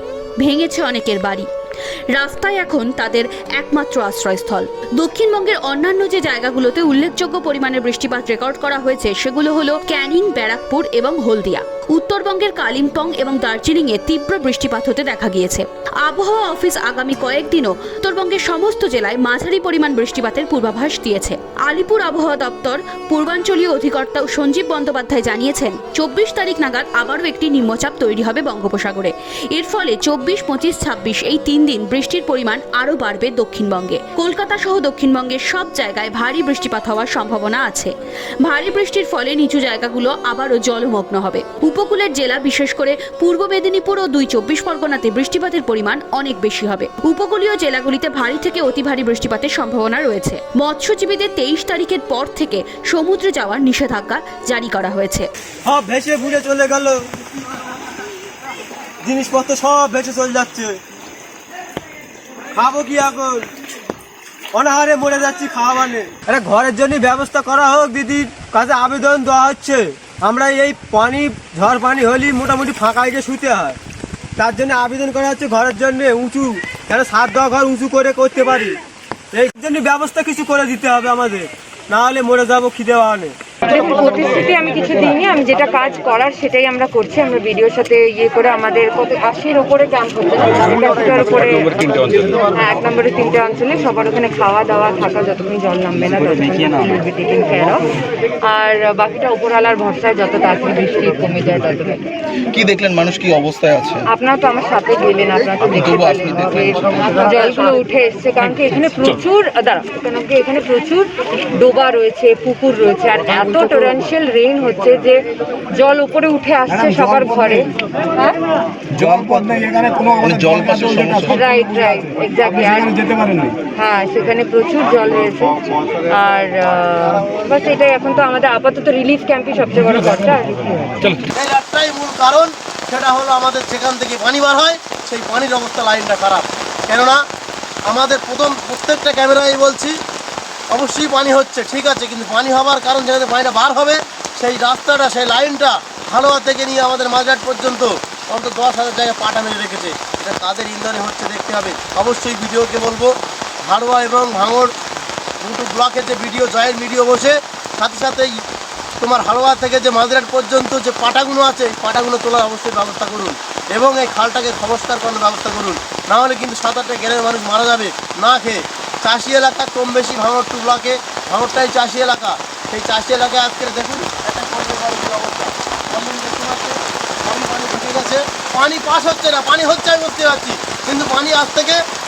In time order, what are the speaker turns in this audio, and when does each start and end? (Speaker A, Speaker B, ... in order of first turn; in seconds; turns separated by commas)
Speaker A: 0.4-1.5, Speaker A: 2.1-55.3, Speaker B: 55.6-57.1, Speaker B: 59.0-60.8, Speaker B: 62.6-63.5, Speaker B: 64.5-73.8, Speaker B: 74.4-78.8, Speaker B: 79.3-83.4, Speaker C: 83.6-102.1, Speaker D: 102.5-104.1, Speaker C: 104.1-115.2, Speaker D: 105.7-107.1, Speaker C: 115.8-118.4, Speaker D: 118.9-121.5, Speaker C: 121.3-131.1, Speaker E: 131.3-137.2, Speaker E: 137.9-140.0, Speaker E: 140.7-154.7, Speaker E: 155.4-158.3, Speaker E: 159.0-181.8